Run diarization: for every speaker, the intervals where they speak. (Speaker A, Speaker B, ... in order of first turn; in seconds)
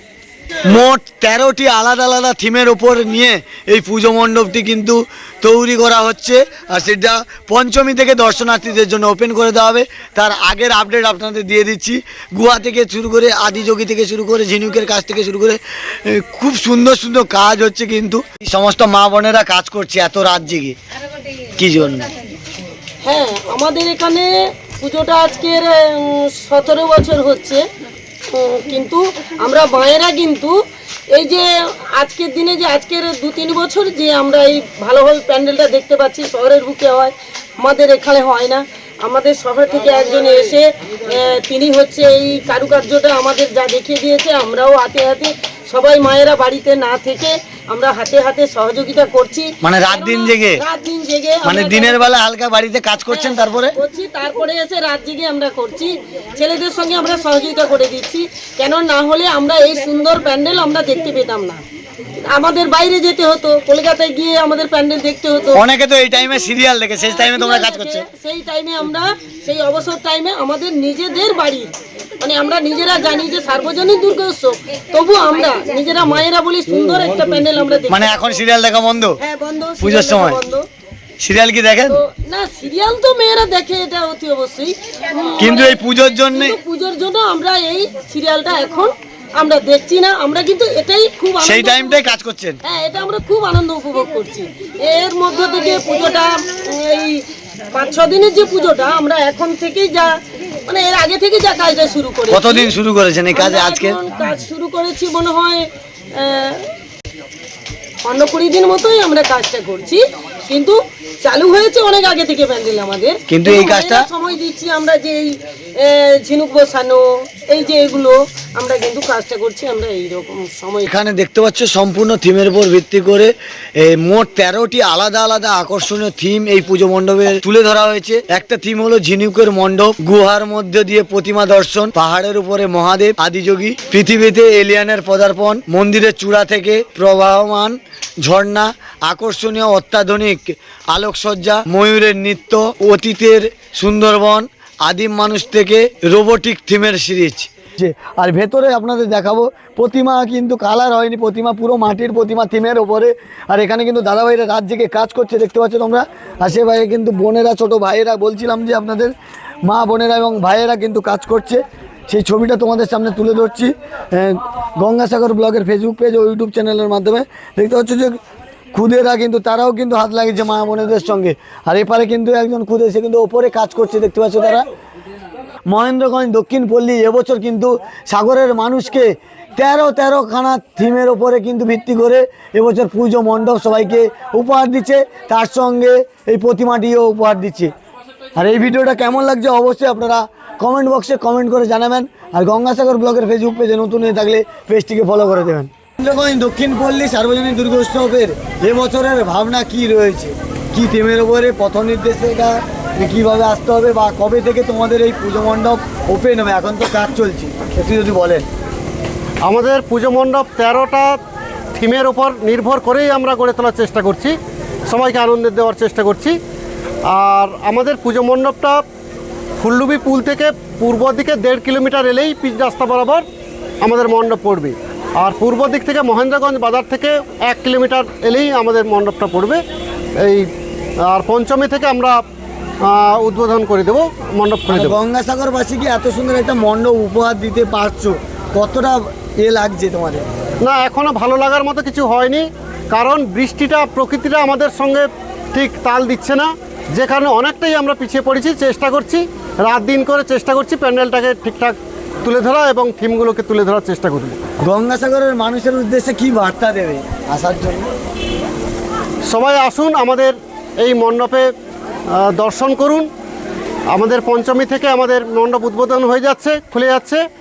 Speaker A: 0.6-20.8, 21.6-22.1, 49.6-50.6, 51.4-53.8, 65.5-68.0, 77.9-79.2, 79.8-80.4, 81.2-82.0, 85.4-86.6, 91.4-92.6, 102.3-104.0, 113.3-114.1, 120.8-168.2, 168.7-174.7, 175.7-187.7, 188.4-208.4, 234.7-240.3, 254.6-257.9
Speaker B: 23.0-27.6, 28.3-30.5, 31.1-52.0, 53.1-61.6, 62.3-65.7, 67.1-78.4, 79.2-80.7, 81.9-92.1, 92.6-100.1, 100.7-102.7, 103.3-106.7, 108.0-120.9
Speaker C: 209.4-211.2, 211.8-214.3, 214.9-216.3, 217.1-218.8, 219.6-223.2, 223.8-229.6, 230.2-230.5, 231.1-232.2, 232.9-234.7, 240.7-254.4, 259.3-261.5, 262.1-263.1, 263.9-267.2